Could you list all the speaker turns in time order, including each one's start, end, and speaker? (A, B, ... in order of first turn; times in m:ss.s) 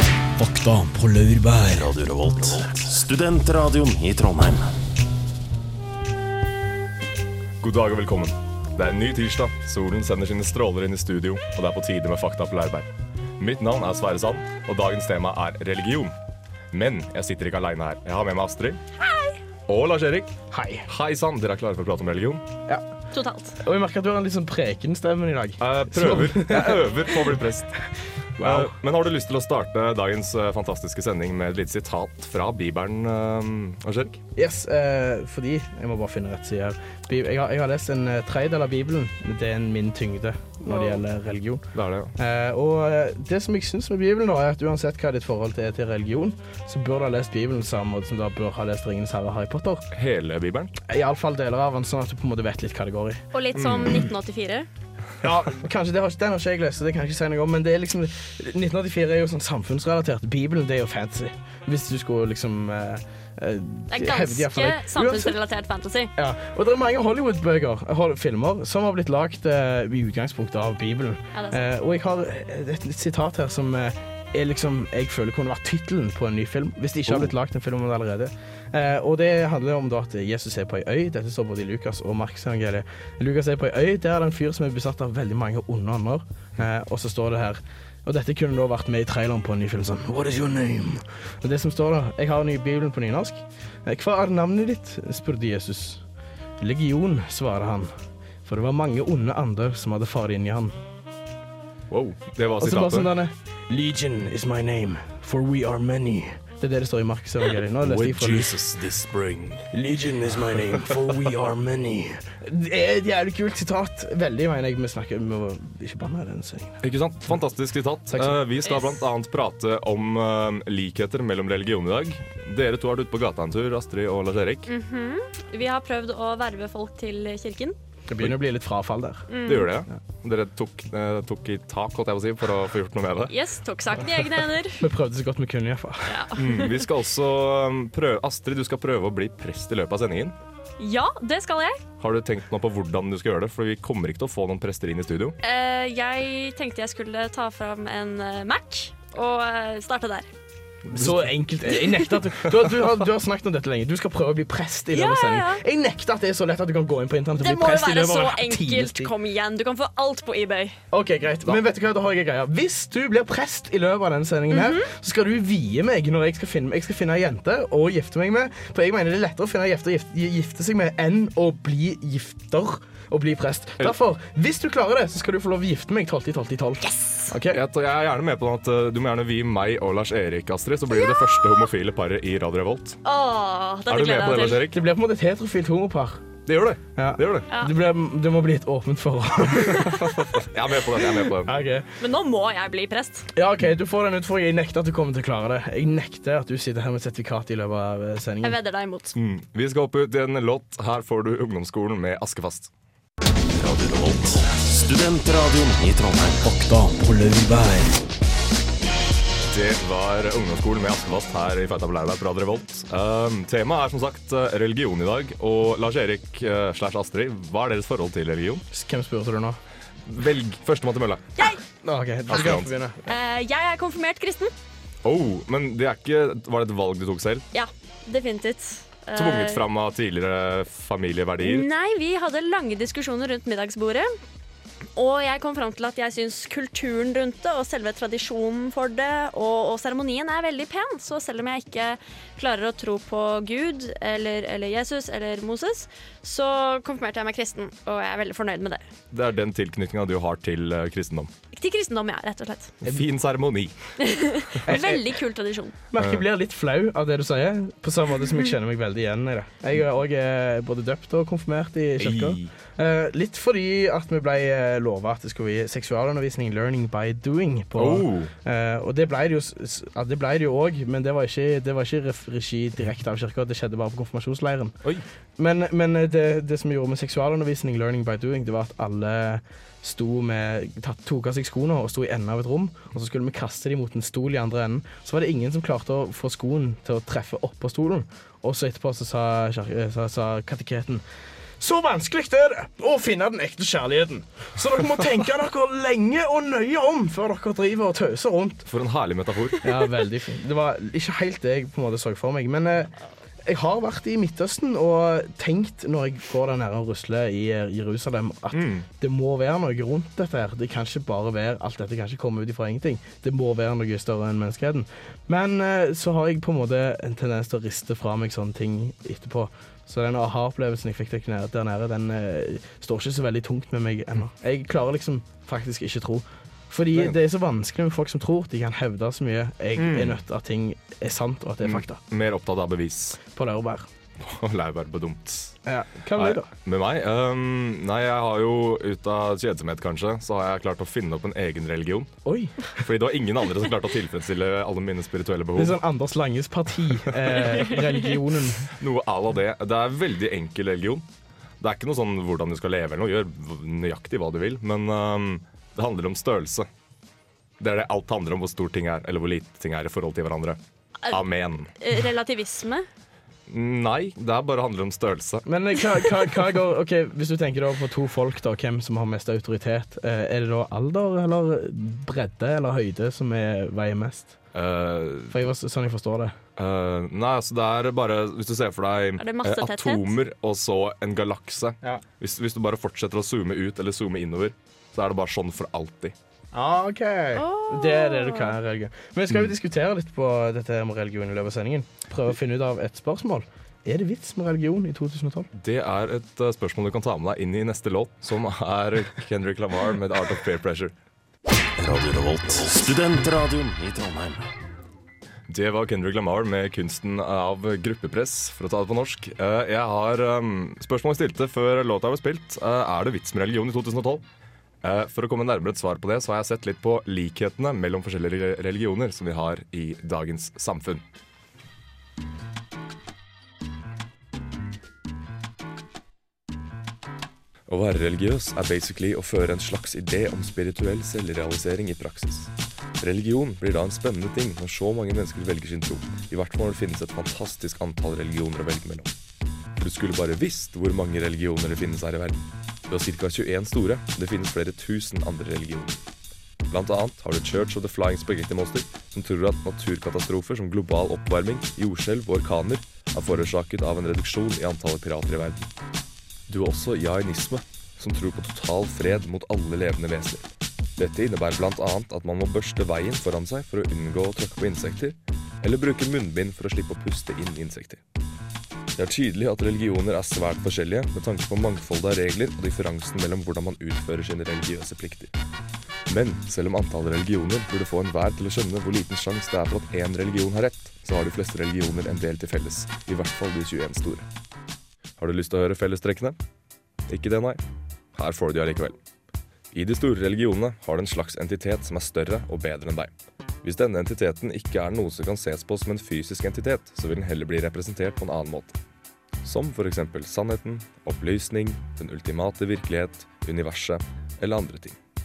0:00.4-0:01.9 A
0:01.7-0:04.7 B
0:07.6-0:16.2 C
0:16.7-0:18.8 C
0:19.0-0:19.4 D
0:19.7-0:22.4 C
0:20.5-0:20.9 E
0:23.1-0:23.6 D
0:23.6-0:26.9 E
0:25.6-0:27.7 C
0:28.4-0:28.7 E
0:28.4-0:34.2 C
0:34.4-0:41.6 E
0:40.7-0:41.0 D
0:41.7-0:42.1 C
0:42.2-0:49.8 E
0:49.9-0:50.7 C
0:50.8-0:53.2 E
0:53.3-0:54.7 D
0:53.5-0:54.1 C
0:55.2-1:05.4 E
1:03.9-1:06.1 D
1:06.2-1:36.0 E
1:11.3-1:11.6 D
1:17.1-1:17.3 C
1:36.6-1:37.9 E
1:38.4-1:40.7 E
1:41.9-1:43.1 C
1:42.6-1:48.5 E
1:47.8-1:49.7 C
1:49.7-1:56.8 E
1:56.8-2:04.7 C
1:58.1-1:58.4 E
2:04.7-2:07.8 D
2:08.1-2:09.2 E
2:09.3-2:09.7 D
2:09.4-2:13.3 C
2:13.3-2:14.8 D
2:14.8-2:16.1 E
2:16.1-2:16.8 D
2:16.4-2:20.4 C
2:20.8-2:21.8 D
2:22.0-2:25.4 C
2:25.4-2:30.3 D
2:30.9-2:31.2 C
2:30.9-2:39.1 E
2:34.9-2:35.6 D
2:37.4-2:40.8 D
2:40.9-2:57.6 E
2:44.5-2:44.9 D
2:56.9-2:57.3 D
2:57.5-3:03.0 C
3:01.0-3:01.6 D
3:03.0-3:04.6 D
3:03.9-3:04.8 C
3:04.7-3:06.2 E
3:06.4-3:07.4 C
3:07.0-3:10.2 E
3:09.7-3:11.6 C
3:11.4-3:11.8 E
3:12.0-3:13.2 D
3:13.3-3:18.5 E
3:18.4-3:19.1 D
3:19.1-3:22.7 C
3:23.5-3:26.4 B
3:26.4-3:27.9 A
3:29.5-3:38.6 C
3:38.7-3:39.6 E
3:40.0-3:41.5 C
3:41.8-3:43.1 E
3:42.3-3:42.7 C
3:43.1-3:44.5 D
3:45.0-3:47.4 C
3:47.5-3:49.6 D
3:49.1-3:51.7 C
3:51.4-3:54.2 D
3:55.0-4:08.8 D
4:09.1-4:11.3 C
4:11.5-4:12.7 D
4:12.8-4:13.8 C
4:14.0-4:15.8 D
4:14.6-4:15.0 E
4:15.9-4:34.8 E
4:16.0-4:16.2 C
4:22.0-4:22.5 C
4:27.8-4:28.3 C
4:35.4-4:51.0 E
4:51.6-4:58.6 E
4:58.6-4:59.6 C
4:59.6-5:02.9 E
5:03.4-5:32.0 E
5:08.5-5:08.8 C
5:26.9-5:27.2 C
5:29.8-5:30.2 C
5:31.6-5:33.2 C
5:33.3-5:33.9 E
5:34.2-5:35.6 C
5:35.6-5:36.5 E
5:36.2-5:42.1 C
5:42.2-5:42.7 E
5:42.6-5:45.8 C
5:45.6-5:48.7 E
5:48.7-5:51.0 C
5:51.6-5:56.7 C
5:57.6-6:01.7 C
6:01.8-6:02.9 D
6:03.5-6:05.4 C
6:05.4-6:14.3 E
6:14.5-6:15.4 C
6:15.3-6:16.4 E
6:16.6-6:26.1 C
6:19.2-6:20.2 D
6:26.5-6:35.5 E
6:27.3-6:28.6 D
6:35.5-6:40.9 C
6:41.8-6:44.5 B
6:45.5-6:54.2 C
6:54.8-7:01.0 C
7:07.7-7:19.1 C
7:19.7-7:26.0 C
7:26.7-7:35.7 C
7:36.5-7:48.0 C
7:49.0-7:55.3 C
7:56.1-8:04.3 C
8:05.2-8:06.4 C
8:07.1-8:07.6 C
8:08.1-8:09.0 C
8:09.7-8:13.1 C
8:13.6-8:18.8 C
8:19.4-8:25.0 C